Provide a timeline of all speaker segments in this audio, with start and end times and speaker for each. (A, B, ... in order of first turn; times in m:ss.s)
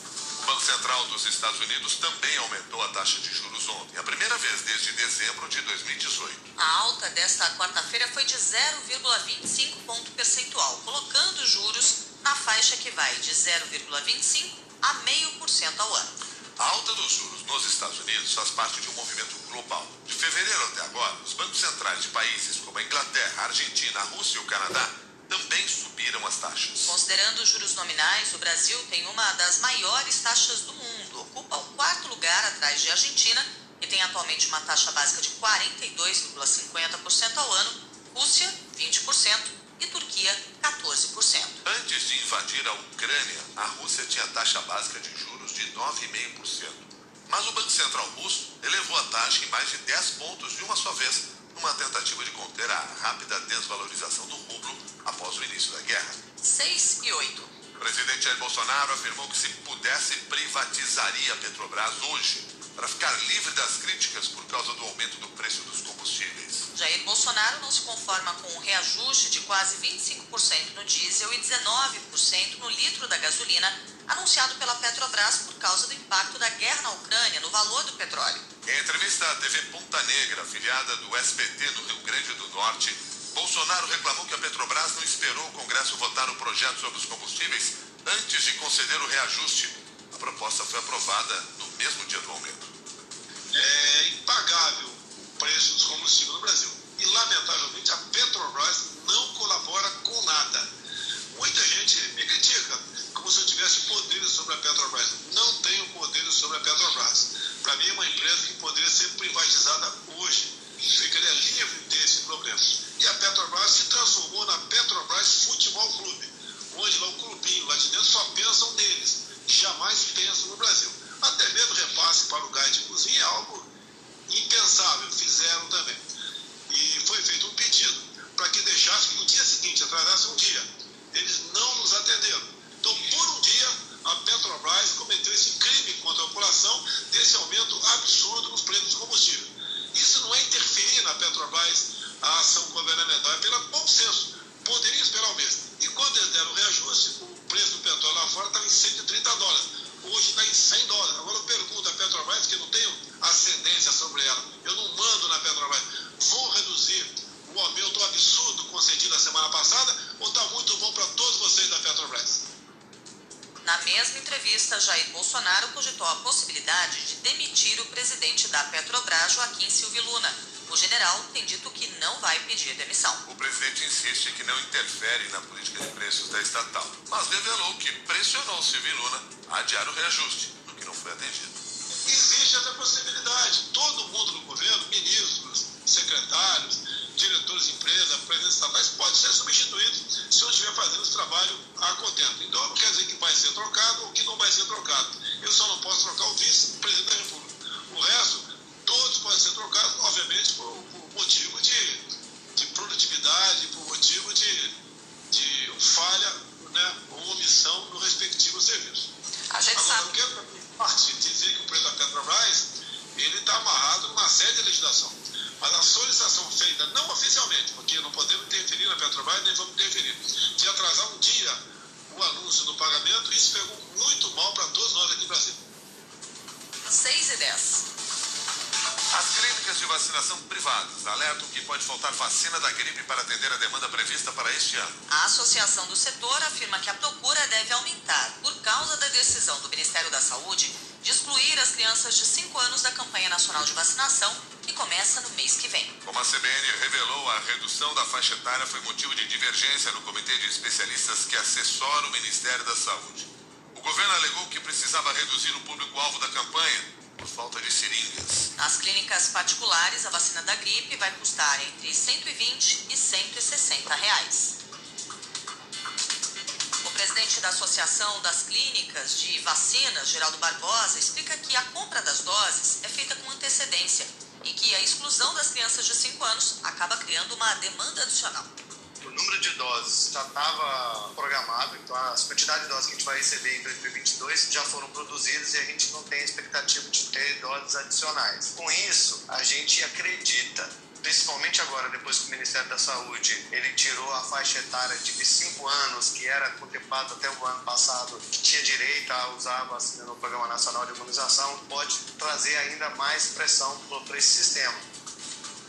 0:00.4-0:06.4 A
0:06.6-0:16.1 B
0:16.6-0:26.9 A
0:26.8-0:41.6 B
0:41.6-0:56.2 A
0:56.4-0:57.5 B
0:57.8-1:06.7 A
1:06.7-1:18.4 B
1:18.6-1:32.6 A
1:33.5-1:40.7 C
1:41.3-2:03.7 C
2:04.3-2:06.1 C
2:06.7-2:42.4 C
2:43.6-2:53.2 B
2:53.3-3:01.5 A
3:02.1-3:22.0 C
3:22.6-3:24.8 C
3:25.3-3:29.1 C
3:29.5-3:30.1 B
3:29.7-3:45.6 C
3:46.8-3:47.8 B
3:49.1-3:55.0 A
3:55.1-4:06.0 B
4:06.0-4:18.5 A
4:18.6-4:24.6 B
4:26.8-4:38.5 B
4:39.0-5:04.9 D